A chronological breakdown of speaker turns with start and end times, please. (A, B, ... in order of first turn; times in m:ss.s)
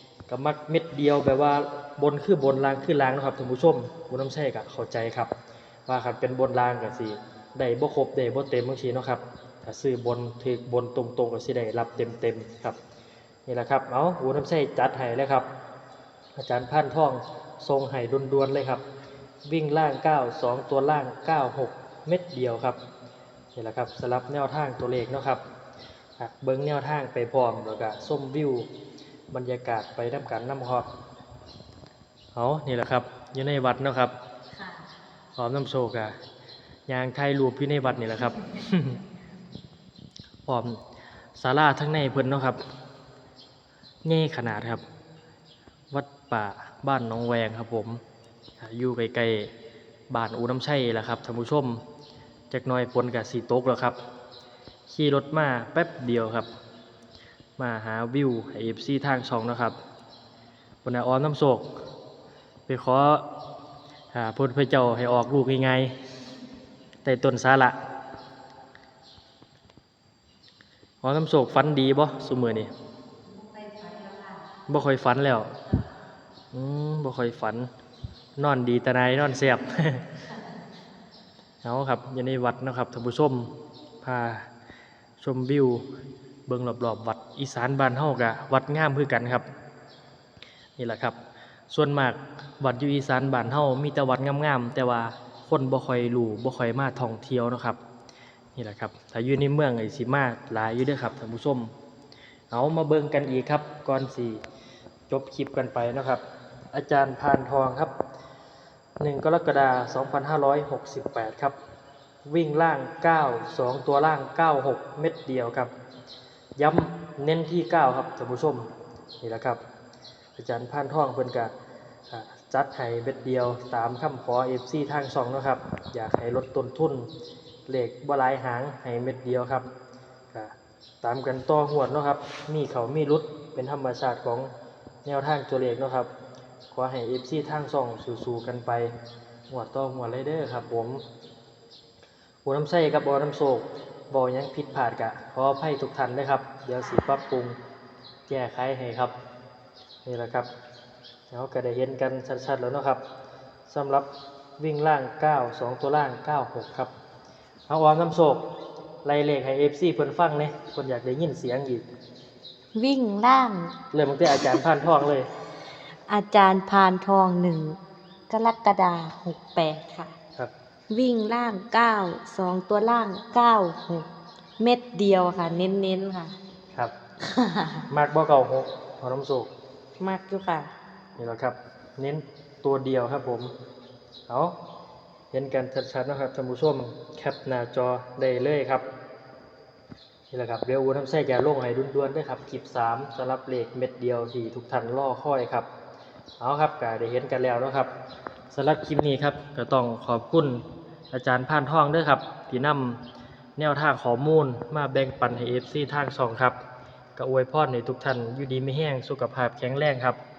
0:00.3-0:05.3 A
0:05.9-0:12.8 A
0:13.5-0:15.5 A
0:16.4-0:18.8 A
0:19.5-0:22.8 A
0:23.6-0:25.4 A
0:26.2-0:28.7 A
0:29.3-0:30.9 A
0:32.4-0:34.1 A
0:34.5-0:34.9 B
0:35.4-0:36.2 A
0:36.9-0:39.0 A
0:40.5-0:40.8 A
0:41.4-0:42.6 A
0:44.0-0:44.8 A
0:45.9-0:48.0 A
0:48.6-0:49.5 A
0:50.1-0:51.8 A
0:52.5-0:54.0 A
0:54.9-0:56.5 A
0:57.6-0:59.8 A
1:00.8-1:01.7 A
1:02.7-1:03.3 A
1:04.1-1:05.9 A
1:07.0-1:07.8 A
1:11.0-1:12.7 A
1:13.3-1:14.4 B
1:14.7-1:15.6 A
1:16.5-1:17.7 A
1:18.4-1:20.1 A
1:21.6-1:24.5 A
1:25.2-1:25.8 A
1:26.5-1:29.5 A
1:30.8-1:31.2 A
1:31.7-1:37.8 A
1:38.6-1:41.7 A
1:42.5-1:44.4 A
1:45.1-1:47.9 A
1:49.0-1:51.6 A
1:52.3-1:55.7 A
1:56.6-1:59.6 A
2:00.4-2:01.5 A
2:02.1-2:07.1 A
2:07.7-2:09.7 A
2:10.3-2:14.5 A
2:15.0-2:16.1 A
2:16.7-2:19.0 A
2:19.5-2:21.0 A
2:22.4-2:27.6 A
2:28.3-2:29.2 A
2:30.0-2:30.5 A
2:31.3-2:33.0 A
2:33.7-2:34.1 A
2:34.6-2:36.9 A
2:37.7-2:38.5 A
2:39.0-2:41.8 A
2:42.8-2:43.8 B
2:43.9-2:45.3 A
2:46.1-2:50.2 B
2:50.9-2:54.1 B
2:54.6-2:56.4 B
2:57.2-2:57.8 B
2:57.9-2:59.5 A
3:00.0-3:00.7 B
3:01.2-3:03.6 A
3:04.3-3:04.6 A
3:05.3-3:08.9 A
3:10.3-3:15.7 A
3:16.4-3:17.9 A
3:18.5-3:23.0 A
3:23.6-3:26.6 A
3:27.2-3:30.2 A